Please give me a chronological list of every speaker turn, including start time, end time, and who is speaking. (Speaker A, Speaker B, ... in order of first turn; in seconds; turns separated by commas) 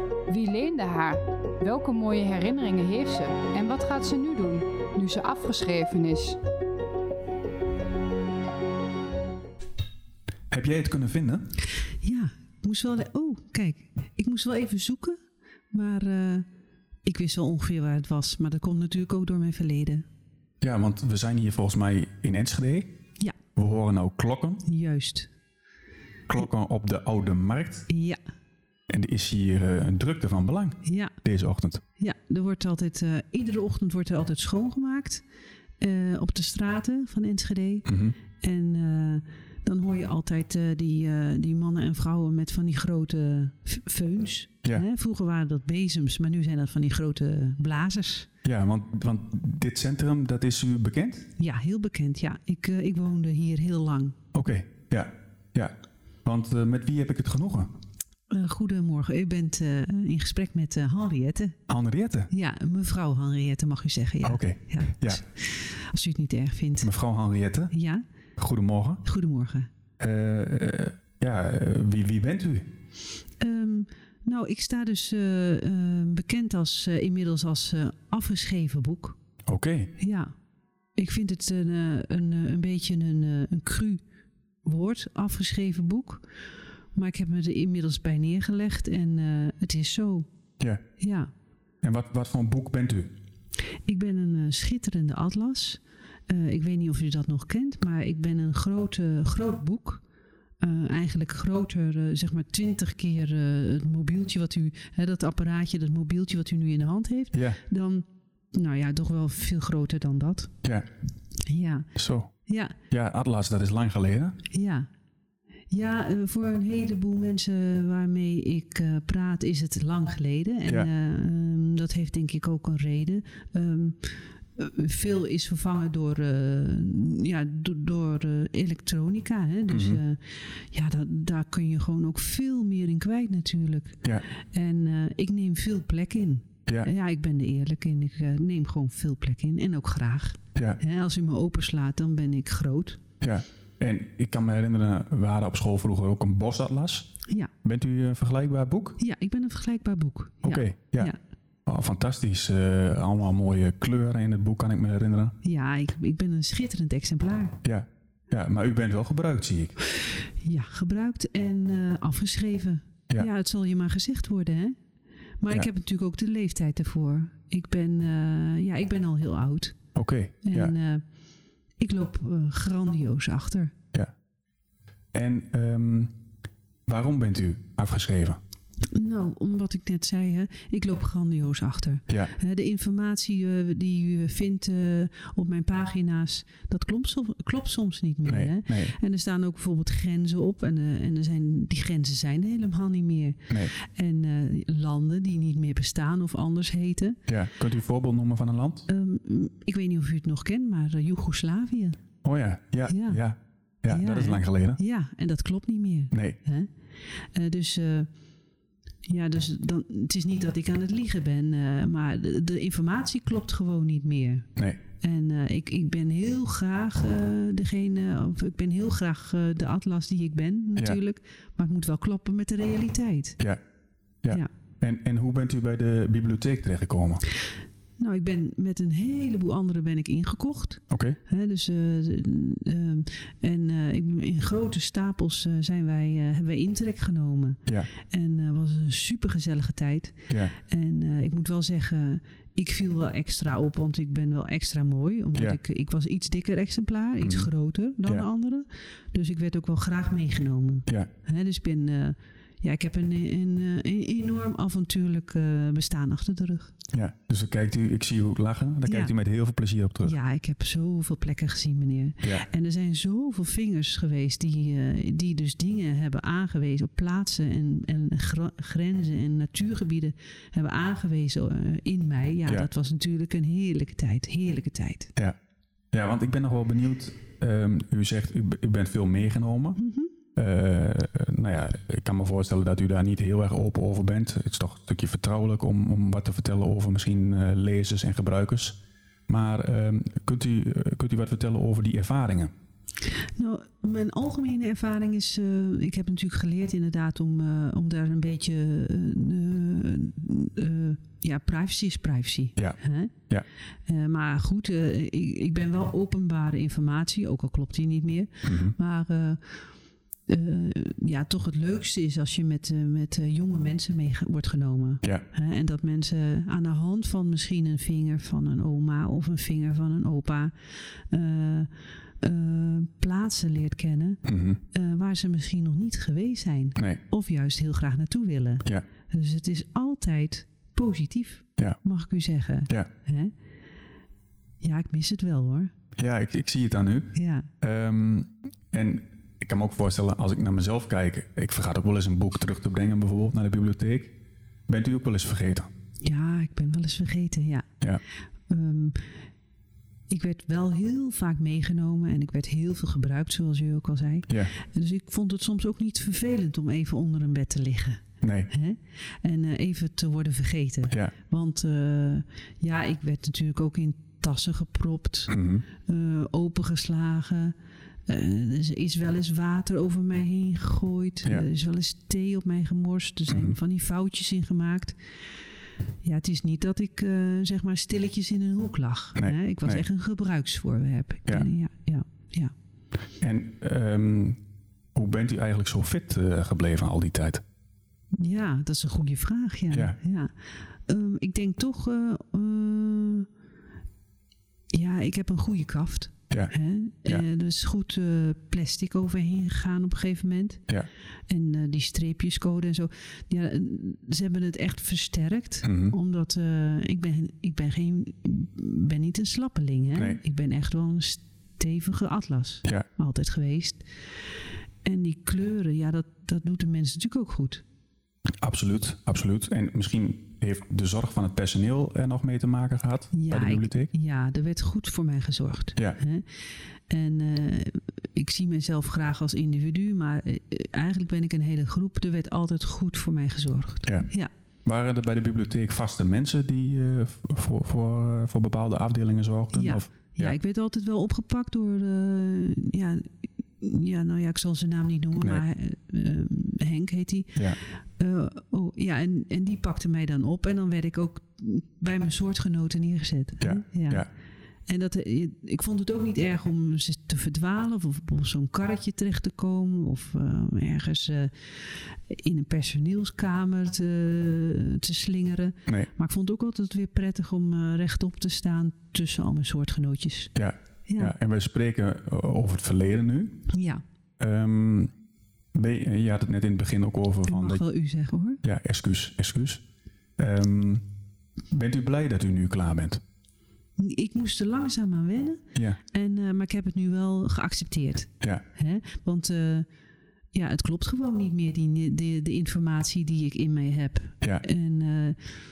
Speaker A: 0.3-6.4, Speaker B: 10.5-11.5, Speaker C: 12.0-15.2, Speaker C: 15.7-16.5, Speaker C: 17.1-20.1, Speaker B: 20.6-22.9, Speaker B: 23.6-24.6, Speaker C: 24.6-25.3, Speaker B: 26.3-27.9, Speaker C: 27.9-28.2, Speaker B: 28.9-31.8, Speaker C: 30.8-31.2, Speaker C: 32.0-35.2, Speaker C: 35.8-37.9, Speaker B: 37.9-38.2, Speaker C: 38.4-48.3, Speaker B: 48.4-51.3, Speaker C: 51.4-54.1, Speaker B: 54.3-57.7, Speaker C: 58.3-61.6, Speaker B: 61.7-62.3, Speaker C: 62.3-66.9, Speaker B: 64.2-65.2, Speaker B: 66.8-67.7, Speaker C: 67.7-68.0, Speaker B: 68.4-69.0, Speaker C: 69.0-69.7, Speaker B: 70.0-72.7, Speaker C: 73.4-79.2, Speaker B: 79.5-79.9, Speaker C: 80.0-80.3, Speaker C: 81.0-84.0, Speaker C: 84.6-86.2, Speaker C: 86.9-90.3, Speaker C: 91.0-91.3, Speaker B: 91.8-93.1, Speaker C: 93.8-100.0, Speaker C: 100.6-110.5, Speaker B: 107.3-107.6, Speaker C: 111.5-111.9, Speaker B: 112.0-112.3, Speaker C: 112.5-112.8, Speaker B: 112.9-114.4, Speaker C: 114.5-114.9, Speaker C: 115.7-143.0, Speaker B: 129.7-130.0, Speaker B: 143.2-147.1, Speaker B: 147.6-149.0, Speaker C: 149.0-151.2, Speaker B: 150.4-151.1, Speaker B: 151.7-155.3, Speaker C: 155.4-157.6, Speaker B: 157.6-159.8, Speaker C: 160.4-164.8, Speaker C: 165.4-169.8, Speaker B: 169.9-170.8, Speaker C: 170.4-171.0, Speaker C: 171.8-173.7, Speaker B: 175.1-176.1, Speaker B: 176.9-178.4, Speaker C: 178.9-197.2, Speaker B: 188.3-189.0, Speaker B: 197.3-198.9, Speaker C: 198.9-202.0, Speaker B: 202.2-204.8, Speaker C: 202.9-203.2, Speaker C: 203.9-206.7, Speaker B: 206.1-206.4, Speaker C: 207.3-208.1, Speaker C: 209.1-214.5, Speaker C: 215.0-223.4, Speaker B: 224.2-227.2, Speaker C: 228.0-256.7, Speaker B: 230.9-231.2, Speaker B: 247.2-247.5, Speaker B: 256.9-260.1, Speaker C: 258.9-259.1, Speaker C: 260.1-275.1, Speaker B: 275.9-279.8, Speaker C: 279.8-280.1, Speaker B: 280.4-292.5, Speaker C: 293.4-303.1, Speaker C: 303.9-309.4, Speaker B: 308.4-308.8, Speaker C: 310.3-320.5, Speaker C: 321.1-321.7, Speaker C: 322.2-333.3, Speaker B: 324.2-324.6, Speaker C: 334.6-335.7, Speaker B: 336.0-344.2, Speaker C: 337.1-337.5, Speaker B: 344.7-345.7, Speaker C: 346.0-347.7, Speaker C: 348.5-349.0, Speaker C: 350.1-367.6, Speaker B: 358.2-358.5, Speaker B: 365.3-365.6, Speaker C: 368.1-375.0, Speaker B: 373.3-373.6, Speaker C: 376.0-382.5, Speaker B: 379.2-379.8, Speaker B: 383.2-384.4, Speaker B: 384.9-387.4, Speaker C: 388.2-390.3, Speaker C: 390.9-393.3, Speaker C: 394.7-400.6, Speaker C: 401.3-413.9, Speaker B: 405.6-405.9, Speaker C: 414.8-417.6, Speaker B: 418.4-423.9, Speaker C: 423.1-426.2, Speaker C: 426.9-434.3, Speaker B: 434.6-440.4, Speaker C: 439.5-443.1, Speaker C: 443.6-447.4, Speaker C: 448.0-454.1, Speaker B: 453.4-454.1, Speaker C: 454.7-461.3, Speaker C: 462.1-470.3, Speaker B: 470.4-473.5, Speaker C: 470.9-471.1, Speaker C: 473.5-473.8, Speaker B: 474.2-474.9, Speaker B: 475.6-477.6, Speaker C: 477.3-478.4, Speaker B: 478.4-479.6, Speaker B: 480.2-480.9, Speaker B: 481.5-483.0, Speaker C: 483.8-489.7, Speaker C: 490.3-495.2